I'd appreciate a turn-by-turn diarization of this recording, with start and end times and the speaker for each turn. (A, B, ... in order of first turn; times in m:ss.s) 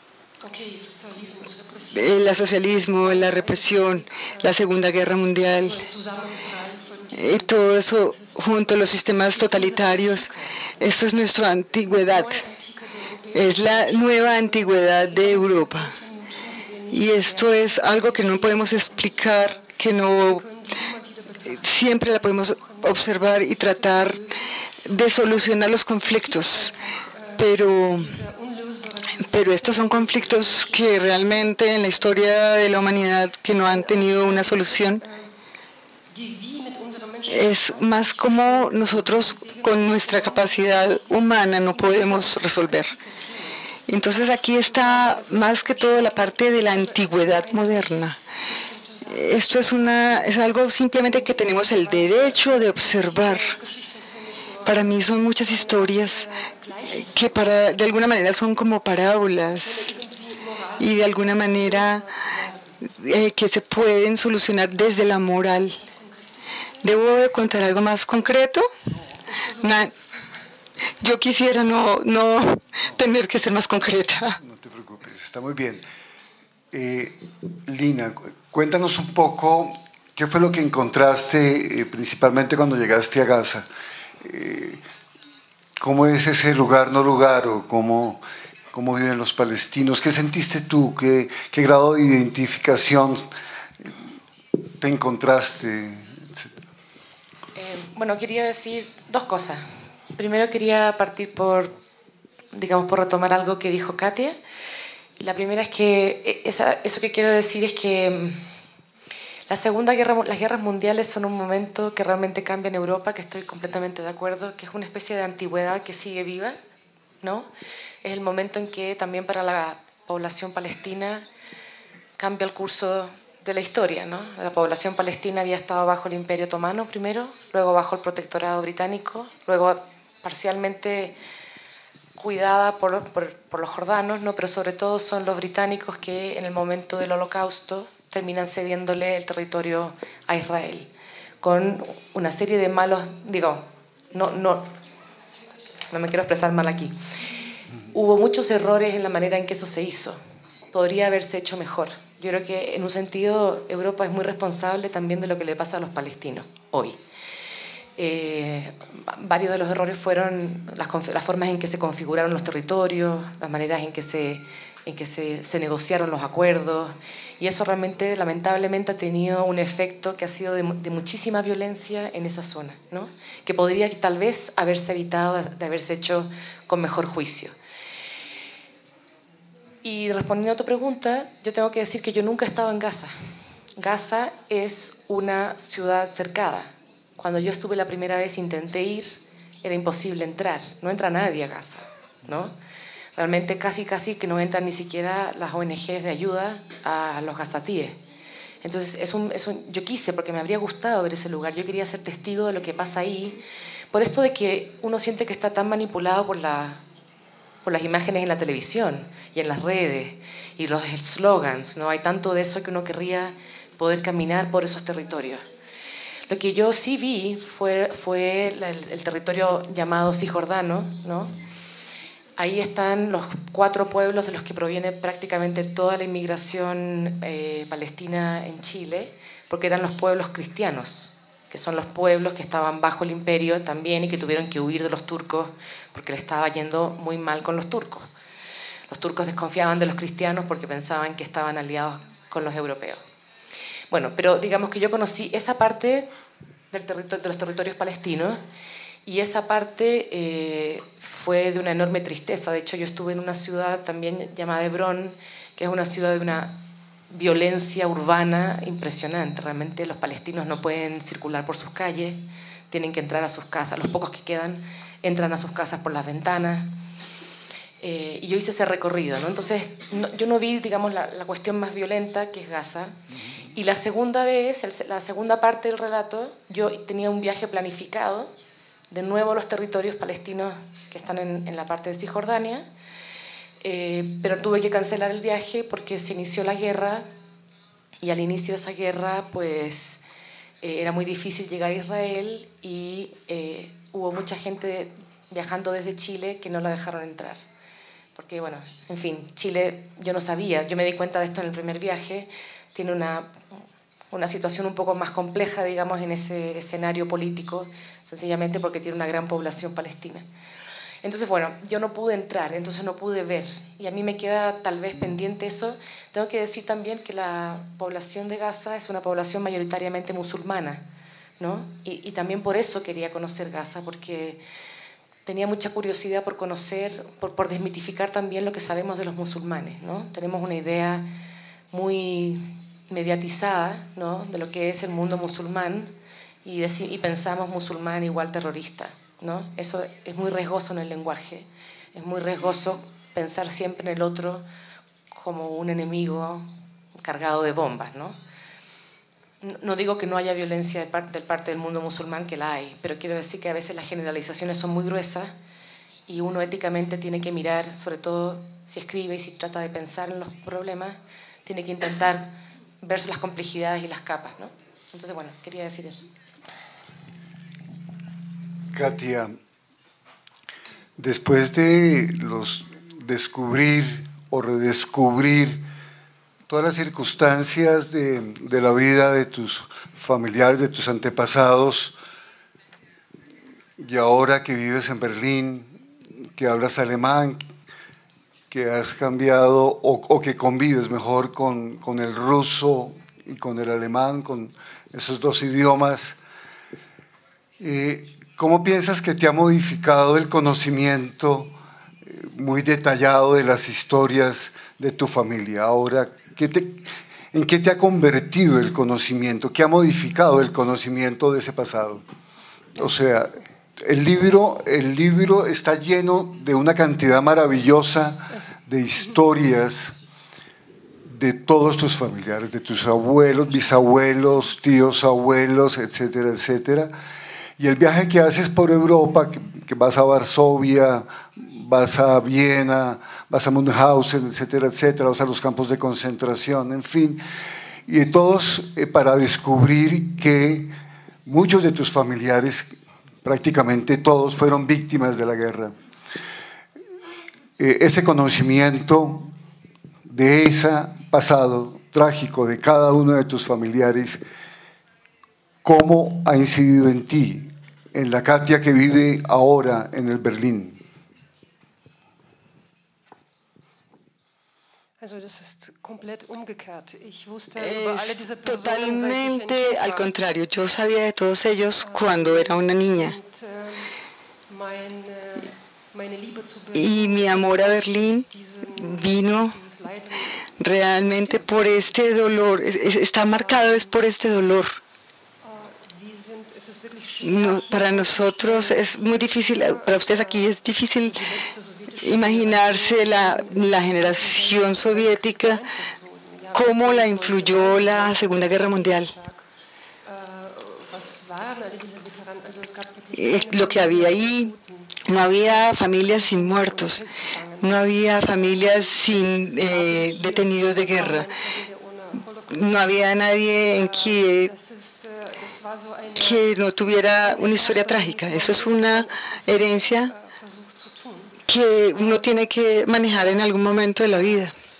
0:00.4-0:04.6 A
0:01.9-0:05.8 B
0:05.6-0:10.7 A
0:07.1-0:12.4 B
0:11.9-0:32.2 A
0:13.3-0:15.9 B
0:16.9-0:20.4 B
0:21.5-0:24.2 B
0:24.8-0:26.7 B
0:27.4-0:28.2 B
0:29.2-0:35.0 B
0:33.6-0:35.3 A
0:36.1-0:57.8 A
0:37.3-0:42.9 B
0:43.9-0:48.2 B
0:49.1-0:53.6 B
0:54.6-0:56.3 B
0:56.9-0:59.9 B
0:59.6-1:02.8 A
1:00.8-1:02.0 B
1:02.9-1:05.8 B
1:05.8-1:07.0 A
1:06.8-1:08.7 B
1:09.2-1:10.4 A
1:09.6-1:09.9 B
1:11.0-1:14.4 B
1:14.4-1:15.8 C
1:16.7-1:23.7 C
1:24.2-1:24.8 C
1:25.8-1:28.2 C
1:28.7-1:33.3 C
1:34.8-1:36.5 C
1:37.5-1:41.8 D
1:42.5-1:44.4 D
1:45.2-1:48.5 D
1:49.5-1:56.6 D
1:57.2-1:57.5 D
1:58.0-2:01.3 D
2:02.2-2:11.2 D
2:12.2-2:20.9 D
2:21.4-2:24.7 D
2:25.9-2:27.0 D
2:27.9-2:30.2 D
2:30.7-2:37.0 D
2:38.0-2:57.5 D
2:59.8-3:03.1 D
3:03.8-3:12.5 D
3:13.2-3:18.0 D
3:18.6-3:23.4 D
3:23.9-3:26.8 D
3:27.6-3:35.4 D
3:36.3-3:41.3 D
3:42.4-3:58.1 D
3:58.9-4:03.0 D
4:03.9-4:06.1 D
4:06.7-4:08.4 D
4:09.0-4:26.8 D
4:27.8-4:33.0 D
4:33.5-4:38.3 D
4:38.9-4:42.6 D
4:43.6-4:47.0 D
4:48.0-4:50.0 D
4:50.6-4:57.4 D
4:58.2-5:03.6 D
5:04.1-5:10.2 D
5:11.0-5:20.8 D
5:21.4-5:24.4 D
5:25.2-5:31.1 D
5:31.7-5:44.4 D
5:45.1-5:46.4 D
5:47.0-5:48.2 D
5:49.4-5:55.3 D
5:56.1-6:06.1 D
6:08.7-6:09.4 C
6:11.0-6:15.6 C
6:16.5-6:22.0 C
6:23.8-6:25.8 C
6:26.3-6:27.4 C
6:28.5-6:36.2 C
6:37.6-6:52.0 C
6:52.8-6:59.9 C
7:01.0-7:06.9 C
7:07.6-7:17.2 C
7:17.9-7:20.7 C
7:21.2-7:22.7 C
7:23.2-7:25.7 C
7:27.6-7:29.3 C
7:30.0-7:34.2 C
7:35.6-7:40.8 C
7:45.0-7:50.1 A
7:47.6-7:53.2 B
7:51.8-7:53.9 A
7:54.5-8:01.9 A
7:56.7-7:59.6 B
8:00.6-8:04.8 B
8:03.2-8:04.0 A
8:05.4-8:19.4 A
8:07.2-8:11.2 B
8:12.0-8:15.6 B
8:16.5-8:19.1 B
8:20.0-8:43.5 A
8:23.1-8:24.5 B
8:25.0-8:27.0 B
8:27.6-8:31.3 B
8:32.5-8:34.5 B
8:36.2-8:40.1 B
8:41.5-8:44.5 B